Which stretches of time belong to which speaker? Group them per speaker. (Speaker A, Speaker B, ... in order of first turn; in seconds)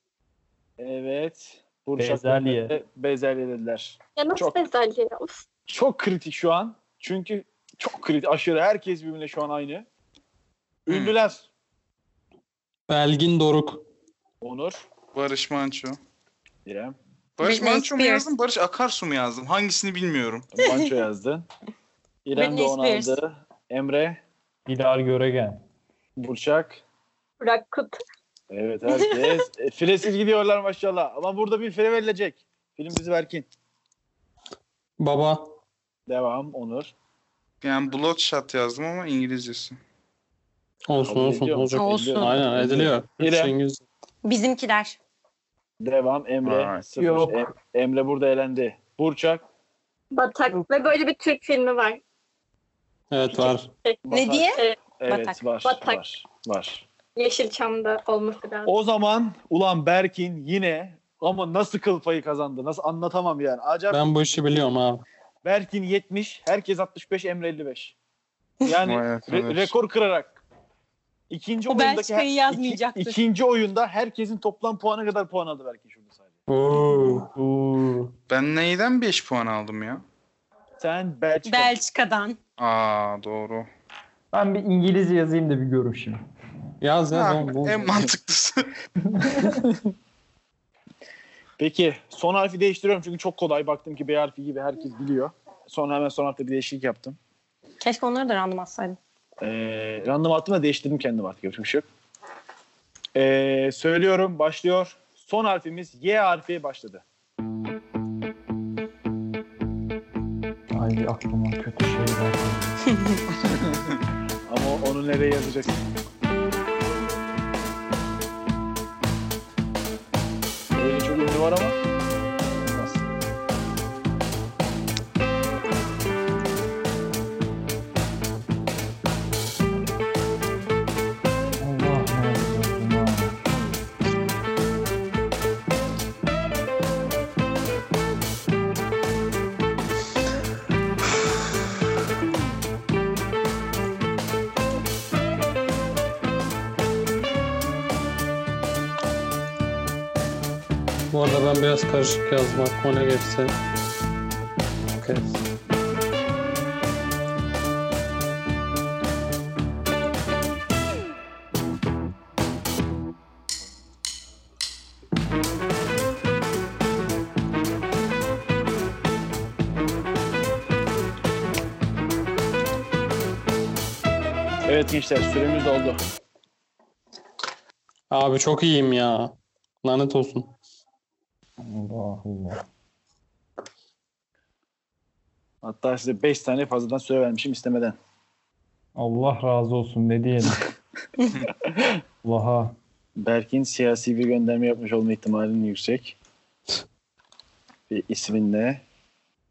Speaker A: 0.8-4.6, 5.7-9.9, 10.9-11.5, 14.4-14.9, 16.6-16.9, 20.5-21.4, 22.2-24.2, 26.2-26.8, 28.5-33.5, 36.1-36.9, 41.0-43.5, 45.8-49.4, 54.1-56.9, 58.6-64.1, 65.4-68.0, 68.6-70.4, 71.3-76.3, 80.8-81.8, 89.4-89.8, 91.6-97.2, 99.4-101.8, 103.1-107.0, 113.3-113.8, 114.5-115.8, 120.7-121.8, 122.7-123.0, 174.7-176.0, 185.6-188.0, 193.2-196.2, 197.9-198.8
Speaker B: 2.0-2.8, 24.7-25.6, 47.0-47.4, 77.3-78.1, 84.3-86.2, 89.1-89.6, 110.7-112.8, 131.6-133.4, 181.6-182.6, 188.9-190.6, 192.2-192.7
Speaker C: 4.2-5.4, 27.4-28.0, 50.1-52.0, 55.6-56.0, 57.1-58.7
Speaker D: 10.9-11.1, 15.1-16.0, 17.4-20.5, 37.6-39.8, 46.4-46.8, 68.8-69.7, 78.3-80.0, 82.6-83.7, 87.1-88.7
Speaker E: 12.9-13.8, 35.0-35.5, 40.9-43.8, 53.1-53.7, 63.9-65.0, 76.5-77.3, 86.8-88.0, 151.1-153.5, 154.9-155.4, 178.1-180.5
Speaker F: 17.4-18.3, 22.3-23.2, 28.9-29.4, 41.7-42.4, 44.2-45.0, 54.1-55.4, 71.7-73.2, 81.5-82.4, 97.8-99.0